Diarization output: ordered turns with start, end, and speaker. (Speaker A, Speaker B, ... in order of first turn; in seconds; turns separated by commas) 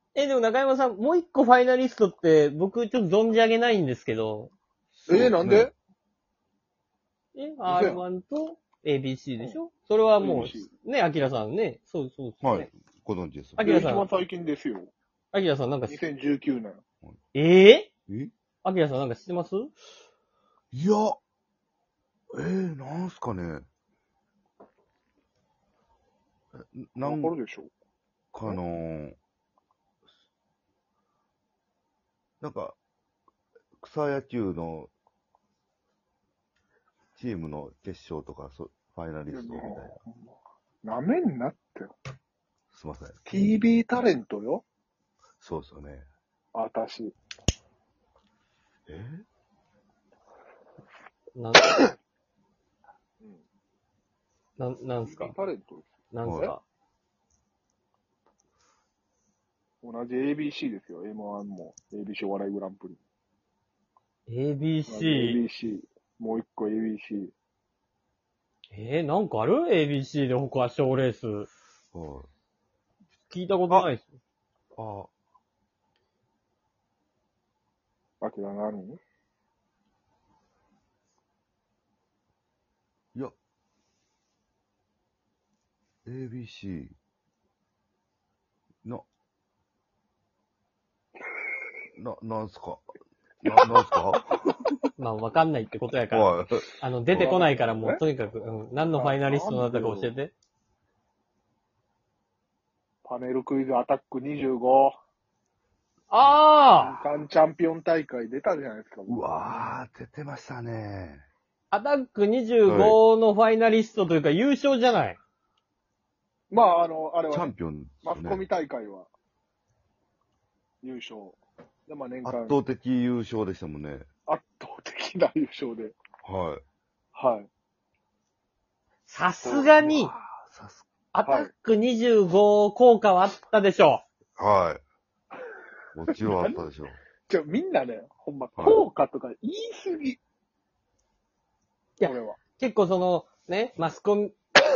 Speaker A: 0.1-4.5, Speaker B: 5.1-5.7, Speaker C: 5.1-5.7, Speaker A: 7.3-12.7, Speaker C: 7.7-8.0, Speaker C: 10.2-10.7, Speaker B: 12.4-13.8, Speaker A: 13.6-14.1, Speaker C: 13.6-14.9, Speaker A: 15.3-16.0, Speaker C: 15.9-16.8, Speaker A: 17.3-17.9, Speaker A: 18.6-19.7, Speaker B: 20.7-21.2, Speaker B: 22.3-23.7, Speaker B: 26.6-27.4, Speaker C: 27.0-27.7, Speaker B: 28.3-29.2, Speaker B: 32.4-32.8, Speaker B: 33.8-34.9, Speaker B: 37.2-40.0, Speaker C: 39.3-41.9, Speaker B: 42.7-43.2, Speaker C: 43.3-44.6, Speaker B: 45.4-46.1, Speaker C: 46.5-47.1, Speaker B: 48.9-49.2, Speaker A: 51.4-51.8, Speaker A: 54.6-55.4, Speaker C: 55.0-56.5, Speaker A: 56.1-56.6, Speaker B: 56.2-56.5, Speaker C: 59.8-63.0, Speaker A: 64.3-65.4, Speaker C: 64.9-67.3, Speaker A: 68.7-71.5, Speaker B: 71.9-72.3, Speaker A: 73.3-74.1, Speaker B: 74.8-75.1, Speaker C: 78.2-79.0, Speaker B: 86.0-87.0, Speaker B: 92.0-92.9, Speaker B: 93.4-94.8, Speaker A: 95.0-100.3, Speaker B: 96.1-97.4, Speaker C: 97.2-98.0, Speaker C: 98.9-100.1, Speaker C: 103.0-104.9, Speaker A: 106.1-107.0, Speaker C: 106.8-109.7, Speaker B: 109.1-111.3, Speaker A: 111.7-115.2, Speaker B: 112.7-113.0, Speaker C: 116.5-119.1, Speaker B: 117.3-118.5, Speaker C: 120.8-122.6, Speaker B: 122.2-124.1, Speaker C: 124.3-126.0, Speaker B: 126.2-126.6, Speaker C: 127.2-127.5, Speaker A: 129.1-130.1, Speaker C: 129.4-129.9, Speaker B: 130.0-130.8, Speaker A: 131.1-134.0, Speaker C: 131.2-131.5, Speaker B: 134.4-134.8, Speaker B: 135.9-137.0, Speaker C: 136.3-136.6, Speaker C: 137.3-140.2, Speaker B: 138.6-138.8, Speaker A: 142.0-144.4, Speaker C: 142.0-142.4